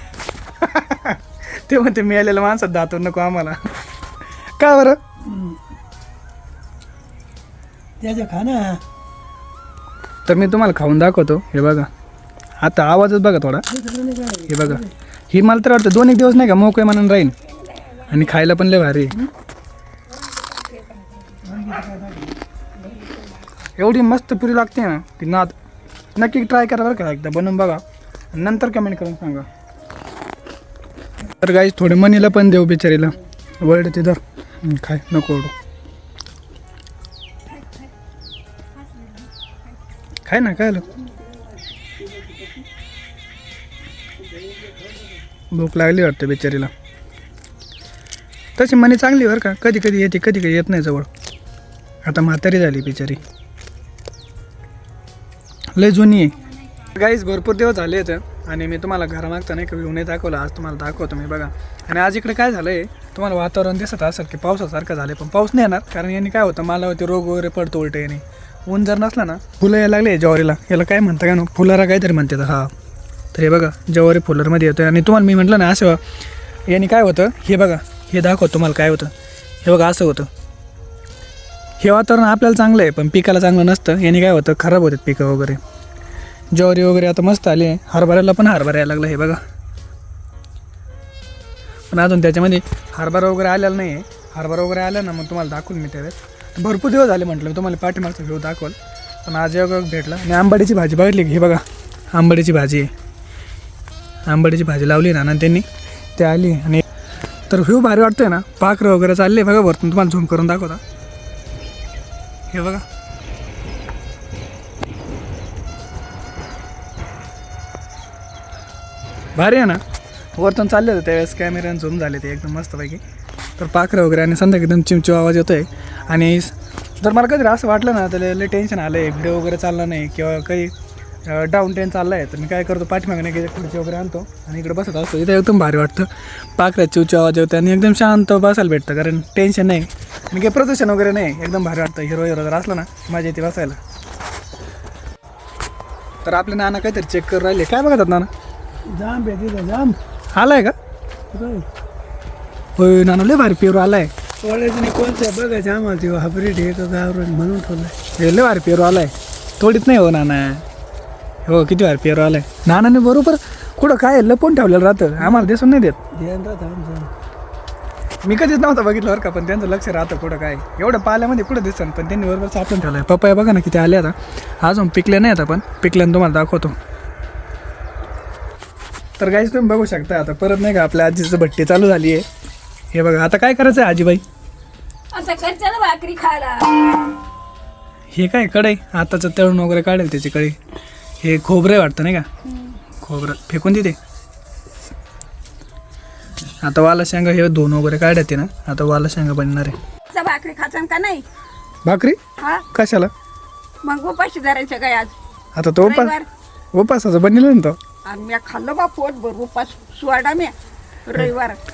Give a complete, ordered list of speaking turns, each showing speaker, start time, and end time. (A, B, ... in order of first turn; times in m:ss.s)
0:00.6-0:03.6 A
0:04.6-0:05.0 A
0:05.2-0:05.6 B
0:08.0-0:08.8 B
0:10.2-0:11.9 A
0:12.6-0:13.6 A
0:13.7-0:14.9 B
0:14.5-0:17.3 A
0:17.4-0:18.4 C
0:18.1-0:19.3 A
0:20.1-0:21.4 C
0:21.4-0:22.4 B
0:23.8-0:25.5 A
0:26.2-0:27.8 A
0:28.3-0:29.4 A
0:31.4-0:35.5 A
0:37.5-0:37.9 C
0:38.8-0:39.3 C
0:40.2-0:40.8 A
0:41.9-0:42.6 B
0:44.2-0:45.2 B
0:45.5-0:46.7 A
0:48.6-0:51.1 A
0:52.0-0:53.2 A
0:55.7-0:56.4 A
0:56.9-1:12.7 A
1:13.3-1:16.0 A
1:16.7-1:19.1 A
1:19.6-1:20.3 A
1:21.8-1:25.6 A
1:26.5-1:29.4 A
1:31.9-1:41.6 A
1:42.1-1:42.9 A
1:44.3-1:45.6 A
1:46.2-1:46.8 A
1:47.5-1:50.8 A
1:52.5-1:52.8 A
1:59.4-1:59.8 A
2:00.4-2:03.0 A
2:03.6-2:10.7 A
2:11.2-2:23.8 A
2:26.2-2:28.3 A
2:28.8-2:30.0 B
2:30.3-2:30.7 A
2:31.3-2:31.6 B
2:32.8-2:34.1 A
2:34.4-2:37.9 B
2:38.2-2:40.6 A
2:41.5-2:46.0 A
2:45.2-2:45.5 B
2:46.1-2:47.1 B
2:48.2-2:56.7 A
2:59.2-3:02.2 A
3:02.9-3:04.2 A
3:05.1-3:06.8 C
3:08.1-3:10.6 A
3:11.2-3:12.3 A
3:12.4-3:12.8 C
3:13.0-3:14.0 A
3:16.6-3:19.8 A
3:20.1-3:21.2 C
3:21.8-3:22.2 A
3:22.4-3:22.6 C
3:22.7-3:23.1 A
3:23.8-3:25.1 C
3:25.5-3:26.1 A
3:25.8-3:26.3 C
3:26.7-3:27.8 A
3:28.0-3:30.5 C
3:31.0-3:31.6 C